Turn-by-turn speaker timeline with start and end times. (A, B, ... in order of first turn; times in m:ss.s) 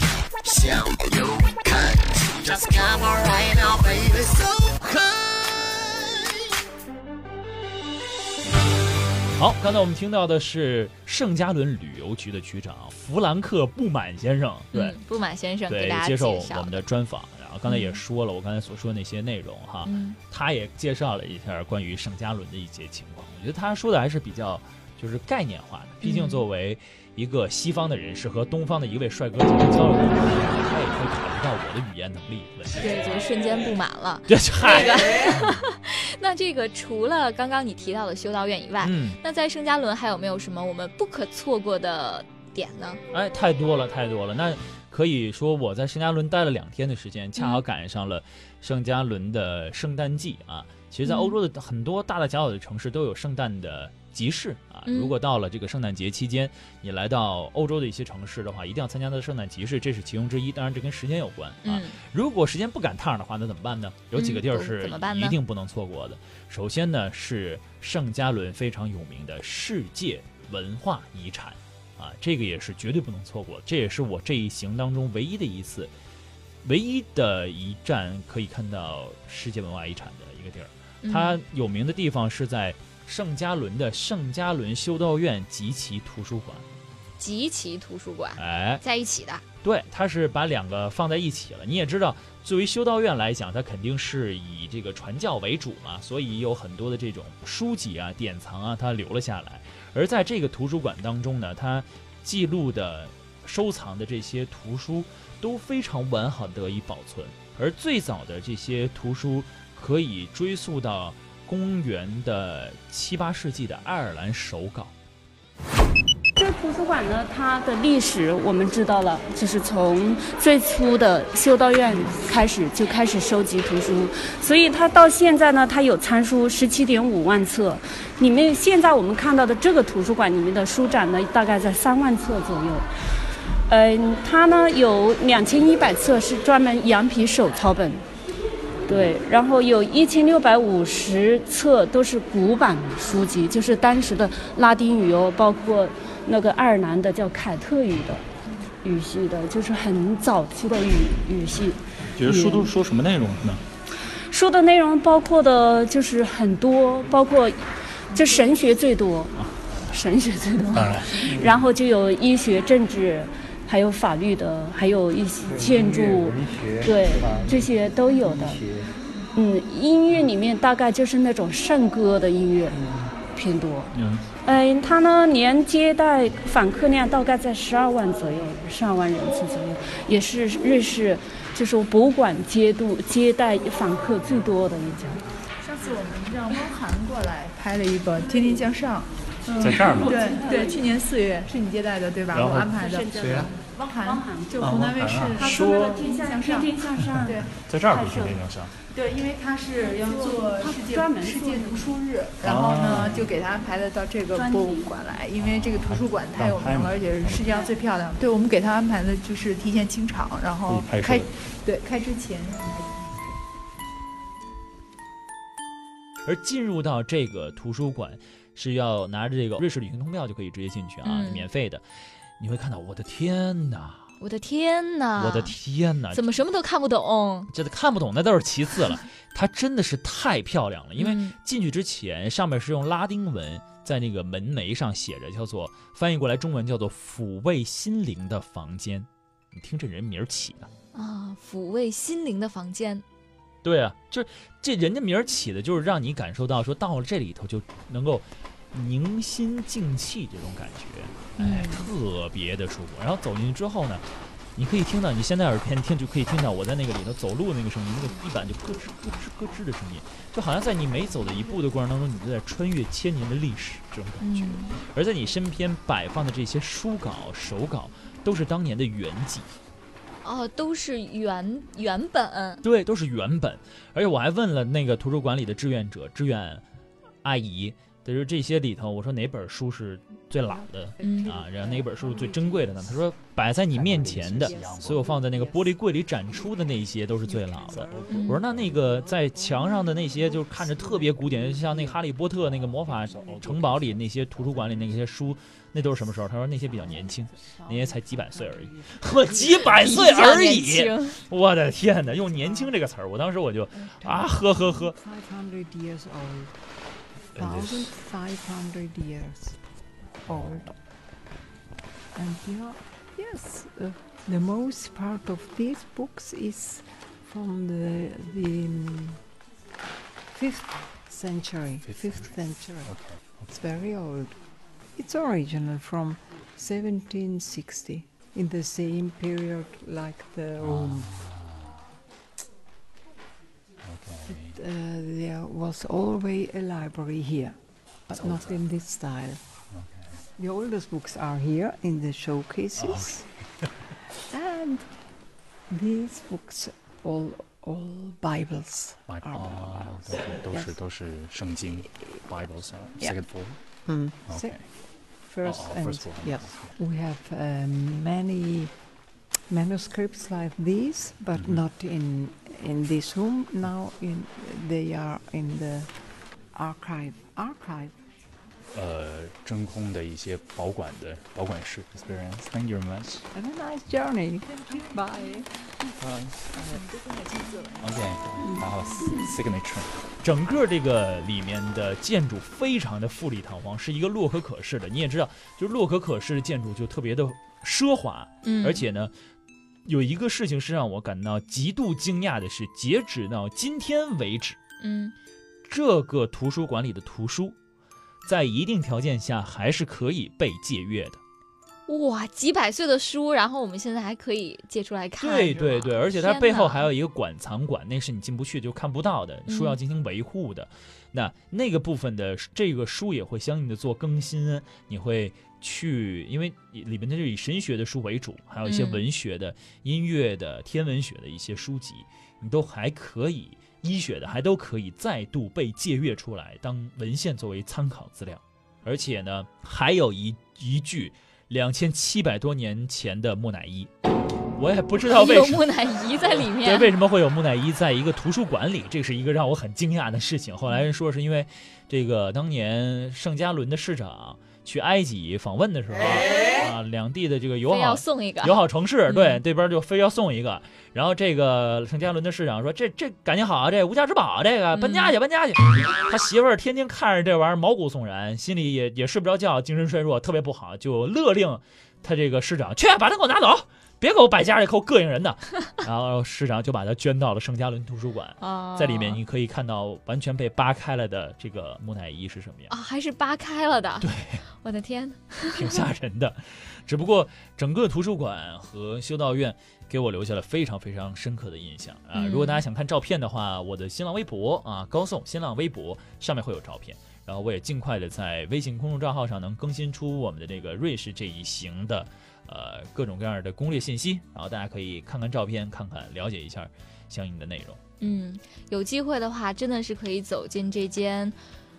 0:00.4-0:06.4 A
0:09.4-0:15.0 B
0:14.7-0:16.8 C
0:15.7-0:33.2 B
0:17.7-0:18.0 C
0:19.9-0:20.2 C
0:26.0-0:26.4 C
0:32.8-0:43.0 C
0:34.3-0:35.5 B
0:38.8-0:39.2 B
0:43.1-1:15.9 B
0:47.4-0:47.6 C
0:51.0-0:51.4 C
0:54.9-0:55.1 C
1:01.6-1:02.0 C
1:04.1-1:05.4 C
1:16.6-1:26.6 B
1:21.0-1:21.4 C
1:27.2-1:29.4 C
1:28.4-1:28.8 B
1:29.6-1:54.9 B
1:56.4-2:12.9 D
2:13.7-2:18.0 D
2:18.9-2:28.2 D
2:28.8-2:32.7 D
2:32.2-2:33.6 E
2:34.3-2:48.6 D
2:39.4-2:39.9 E
2:40.7-2:41.6 E
2:45.5-2:48.9 E
2:49.4-2:52.8 D
2:53.3-3:05.2 D
2:53.9-2:54.3 E
3:05.6-3:17.5 F
3:09.6-3:10.2 E
3:09.8-3:10.9 D
3:12.3-3:13.5 E
3:12.7-3:18.4 D
3:14.6-3:16.1 E
3:16.9-3:18.7 E
3:18.9-3:33.2 F
3:19.8-3:22.0 D
3:22.4-3:23.4 E
3:24.3-3:24.9 D
3:25.4-3:27.5 E
3:30.6-3:31.5 E
3:36.3-3:44.1 B
3:41.0-3:41.5 C
3:44.2-3:45.6 C
3:45.2-3:46.2 B
3:46.1-3:47.5 C
3:47.5-4:00.7 B
3:51.0-3:51.4 C
4:00.9-4:03.0 C
4:03.6-4:29.5 B
4:11.4-4:11.9 C
4:24.2-4:24.8 C
4:30.2-4:32.6 C
4:32.6-4:36.6 B
4:37.2-5:05.0 B
4:40.4-4:43.0 G
4:41.0-4:41.4 C
4:43.7-4:45.3 E
4:44.3-4:45.8 G
4:47.2-4:52.1 G
4:47.7-4:48.9 E
4:48.1-4:48.4 C
4:52.2-4:55.0 E
4:53.2-4:53.6 G
4:56.6-5:00.0 G
4:59.6-5:01.2 C
5:01.8-5:02.8 G
5:04.0-5:06.8 G
5:07.4-5:10.8 G
5:07.4-5:07.9 E
5:10.3-5:10.8 E
5:12.1-5:19.2 G
5:20.3-5:31.1 G
5:21.8-5:23.6 E
5:30.6-5:31.8 E
5:33.8-5:34.6 E
5:34.3-5:39.6 G
5:38.1-5:38.7 E
5:39.7-5:40.2 E
5:40.4-5:43.3 G
5:42.7-5:43.8 E
5:44.3-5:50.8 G
5:49.0-5:56.8 E
5:51.8-6:08.0 G
6:01.3-6:01.6 E
6:08.7-6:13.3 E
6:13.3-6:15.8 G
6:16.0-6:16.7 E
6:16.5-6:17.3 G
6:17.0-6:17.8 F
6:17.8-6:20.1 E
6:18.4-6:19.2 D
6:20.2-6:29.1 B
6:28.4-6:28.8 C
6:29.9-6:34.6 B
6:34.8-6:35.1 C
6:35.7-6:37.6 B
6:38.2-6:41.2 B
6:41.9-6:46.9 C
6:45.2-7:13.9 B
6:49.5-6:49.8 C
6:58.6-6:59.0 C
7:14.6-7:15.7 B
7:15.1-7:16.9 C
7:16.2-7:52.7 B
7:27.7-7:29.4 C
7:34.7-7:35.1 C
7:48.4-7:49.2 C
7:52.7-7:55.8 C
7:54.0-7:54.4 B
7:55.5-8:17.8 B
8:02.1-8:02.6 C
8:18.0-8:21.4 C